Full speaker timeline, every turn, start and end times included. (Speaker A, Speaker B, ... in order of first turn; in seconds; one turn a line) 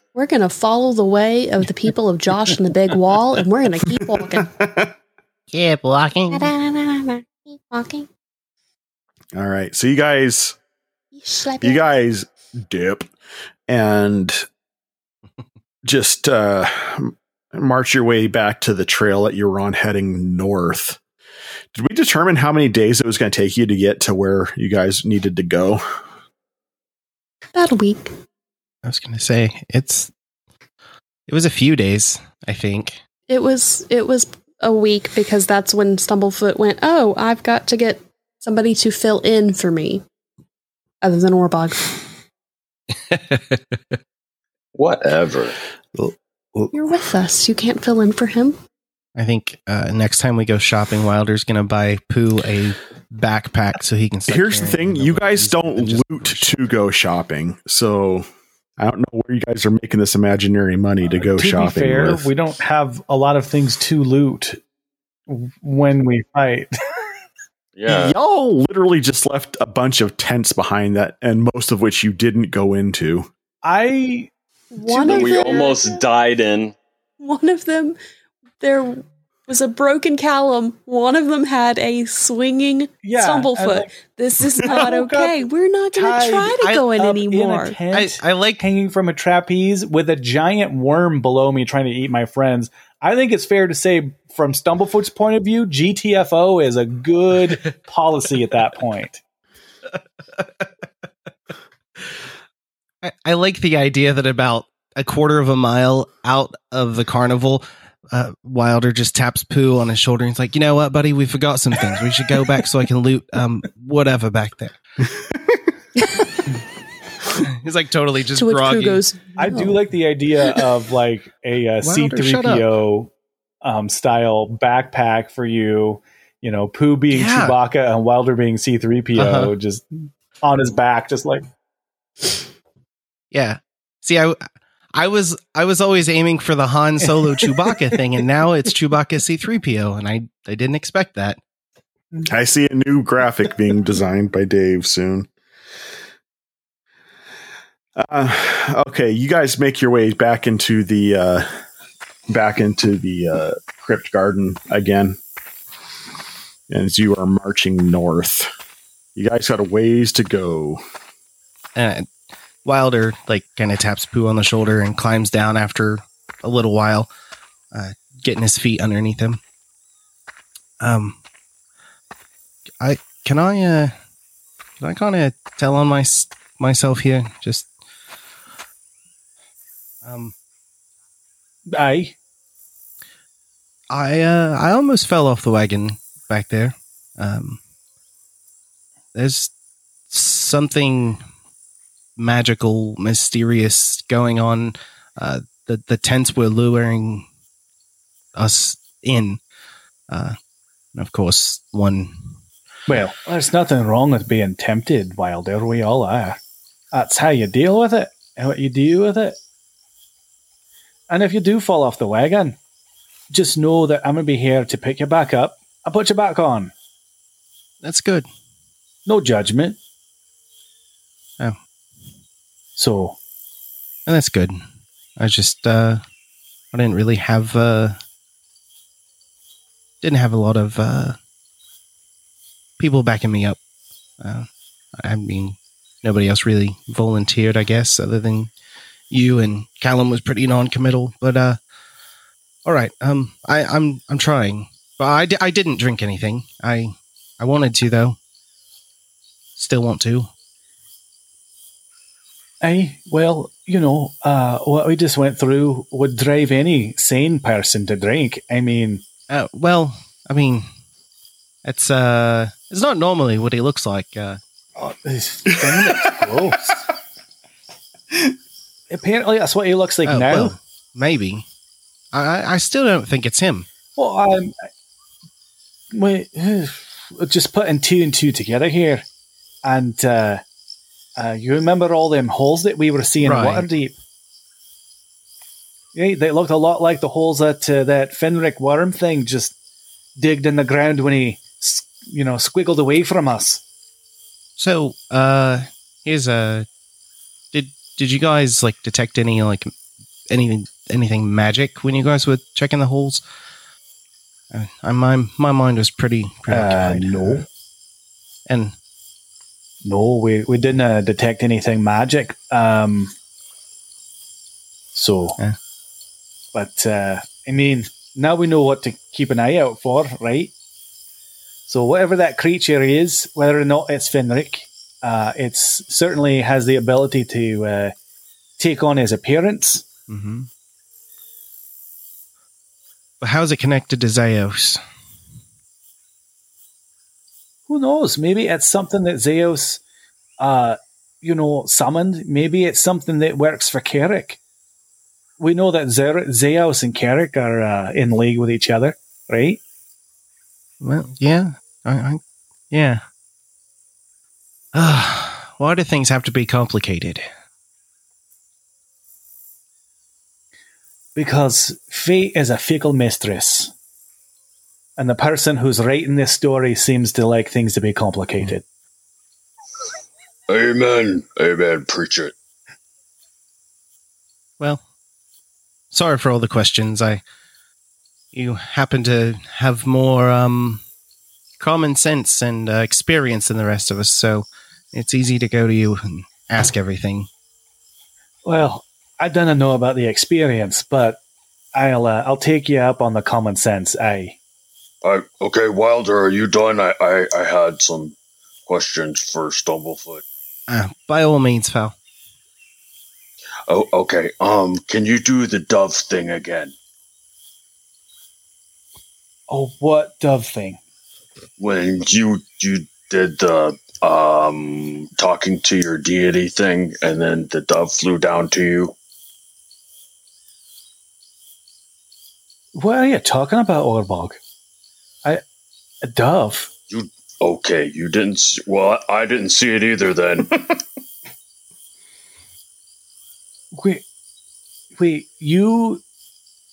Speaker A: 0.1-4.5
Speaker B: 4.2-4.9
Speaker C: 5.5-6.5
Speaker A: 6.3-8.1
Speaker B: 9.3-10.6
Speaker A: 11.1-11.9
Speaker B: 11.6-13.1
Speaker B: 13.7-14.4
Speaker B: 15.8-21.0
Speaker B: 21.7-25.8
Speaker A: 27.5-28.1
Speaker C: 28.8-30.1
Speaker C: 31.3-33.0
Speaker A: 33.3-40.0
Speaker A: 41.0-42.0
Speaker C: 43.1-43.8
Speaker D: 44.7-45.6
Speaker B: 46.0-46.7
Speaker A: 46.7-48.6
Speaker C: 49.1-56.6
Speaker B: 54.3-58.3
Speaker B: 58.8-62.3
Speaker E: 61.2-64.6
Speaker E: 65.3-66.7
Speaker D: 67.8-68.2
Speaker B: 67.9-73.3
Speaker E: 73.6-74.3
Speaker A: 74.7-76.0
Speaker D: 75.0-76.7
Speaker A: 77.2-78.0
Speaker A: 78.6-87.8
Speaker E: 83.0-83.9
Speaker E: 84.6-85.3
Speaker E: 85.9-99.2
Speaker C: 86.6-86.9
Speaker C: 87.9-88.6
Speaker C: 103.0-114.7
Speaker A: 116.0-116.3
Speaker C: 117.4-119.0
Speaker A: 118.3-119.8
Speaker E: 119.4-131.4
Speaker C: 121.8-122.7
Speaker C: 127.1-127.5
Speaker C: 129.2-129.5
Speaker C: 133.3-134.4
Speaker C: 134.9-141.4
Speaker E: 137.1-137.9
Speaker B: 142.2-145.3
Speaker B: 147.9-151.5
Speaker B: 152.3-155.2
Speaker B: 156.7-158.5
Speaker B: 159.2-160.8
Speaker C: 161.7-162.1
Speaker C: 162.6-167.1
Speaker C: 167.7-169.4
Speaker C: 170.8-171.2
Speaker C: 172.8-173.9
Speaker C: 174.8-177.7
Speaker C: 180.0-180.3
Speaker E: 181.7-182.2
Speaker C: 183.9-187.6
Speaker C: 189.1-189.5
Speaker C: 190.1-191.2
Speaker C: 192.2-197.2
Speaker C: 198.4-199.4
Speaker C: 200.1-200.3
Speaker C: 200.9-202.3
Speaker E: 202.9-206.4
Speaker E: 206.9-209.4
Speaker E: 211.1-212.6
Speaker E: 213.3-216.7
Speaker C: 217.8-218.3
Speaker E: 219.1-219.8
Speaker E: 222.8-223.2
Speaker C: 224.1-224.6
Speaker C: 225.2-226.0
Speaker C: 226.7-228.0
Speaker C: 230.0-231.2
Speaker C: 232.8-233.6
Speaker C: 234.2-234.5
Speaker C: 235.0-238.5
Speaker C: 239.1-241.6
Speaker C: 242.6-248.2
Speaker C: 249.6-250.3
Speaker E: 252.6-259.0
Speaker C: 259.3-260.7
Speaker C: 261.6-264.4
Speaker E: 264.8-266.8
Speaker E: 268.9-270.5
Speaker C: 270.0-271.4
Speaker C: 272.1-273.7
Speaker E: 274.0-274.5
Speaker E: 275.9-279.1
Speaker E: 279.6-280.4
Speaker E: 281.2-283.9
Speaker C: 283.2-283.7
Speaker E: 285.9-289.5
Speaker E: 290.2-293.6
Speaker C: 294.6-296.7
Speaker C: 297.5-299.7
Speaker C: 300.3-303.2
Speaker C: 304.5-307.4
Speaker E: 306.5-307.4
Speaker C: 308.5-308.7
Speaker E: 309.8-313.1
Speaker E: 314.9-315.4
Speaker E: 316.5-320.5
Speaker E: 321.7-327.9
Speaker E: 328.6-329.9
Speaker C: 330.1-330.5
Speaker C: 333.2-334.8
Speaker E: 337.7-339.8
Speaker E: 340.4-344.4
Speaker E: 345.4-349.6
Speaker C: 350.8-353.0
Speaker C: 354.7-357.2
Speaker E: 361.1-363.7
Speaker E: 365.0-368.6
Speaker D: 370.5-372.3
Speaker C: 375.9-377.2
Speaker C: 378.3-380.8
Speaker C: 381.6-387.3
Speaker E: 388.4-391.2
Speaker E: 391.7-394.4
Speaker D: 395.0-400.2
Speaker C: 400.7-401.9
Speaker D: 403.7-406.7
Speaker E: 409.5-410.8
Speaker D: 411.6-418.9
Speaker E: 422.7-424.4
Speaker E: 426.0-426.7
Speaker D: 426.9-430.7
Speaker E: 433.7-434.0
Speaker E: 434.9-436.0